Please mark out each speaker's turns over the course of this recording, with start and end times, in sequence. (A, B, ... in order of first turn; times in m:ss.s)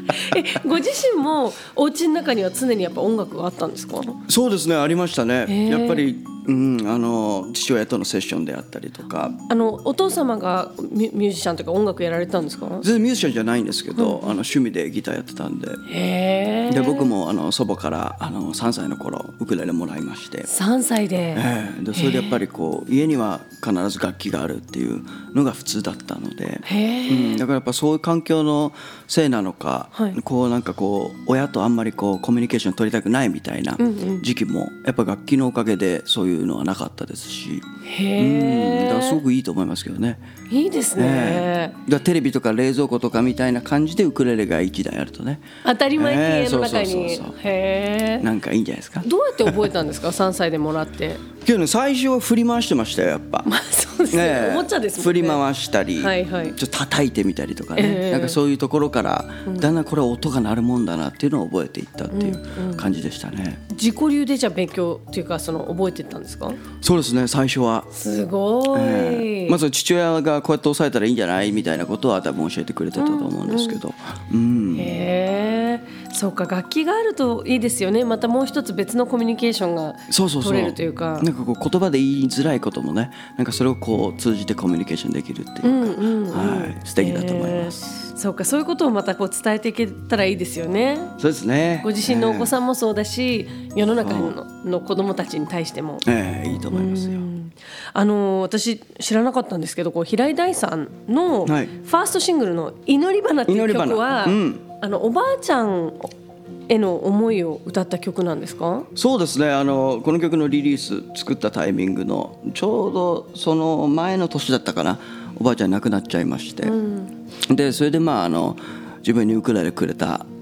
0:00.1-0:04.2 A
0:04.3-0:09.4 B
0:05.5-0:06.0 A
0:09.5-0:12.9 A
0:12.8-0:15.8 B
0:14.0-0:14.3 A
0:15.9-0:17.1 A
0:16.7-0:20.5 B
0:20.5-0:22.4 A
0:21.3-0:40.2 B
0:26.6-0:27.4 A
0:33.8-0:34.2 A
0:37.9-0:39.2 A
0:40.5-0:41.8 A
0:41.0-0:47.4 B
0:45.6-0:48.3 A
0:48.2-0:49.7 B
0:49.0-0:51.2 A
0:51.4-0:53.5 B
0:53.4-0:55.4 A
0:54.1-1:03.6 B
0:56.0-0:56.6 A
0:57.8-0:58.4 A
1:02.1-1:02.9 A
1:03.7-1:06.6 A
1:06.8-1:07.9 B
1:07.9-1:09.6 A
1:08.7-1:14.9 B
1:13.0-1:13.8 A
1:14.7-1:21.3 A
1:20.1-1:28.1 B
1:25.6-1:31.2 A
1:31.2-1:32.5 B
1:31.8-1:36.1 A
1:34.0-1:34.4 B
1:36.0-1:37.3 B
1:36.7-1:46.1 A
1:41.5-1:41.7 B
1:43.5-1:44.6 B
1:46.7-1:48.9 A
1:49.0-1:56.8 B
1:56.6-1:57.1 A
1:57.5-2:00.3 B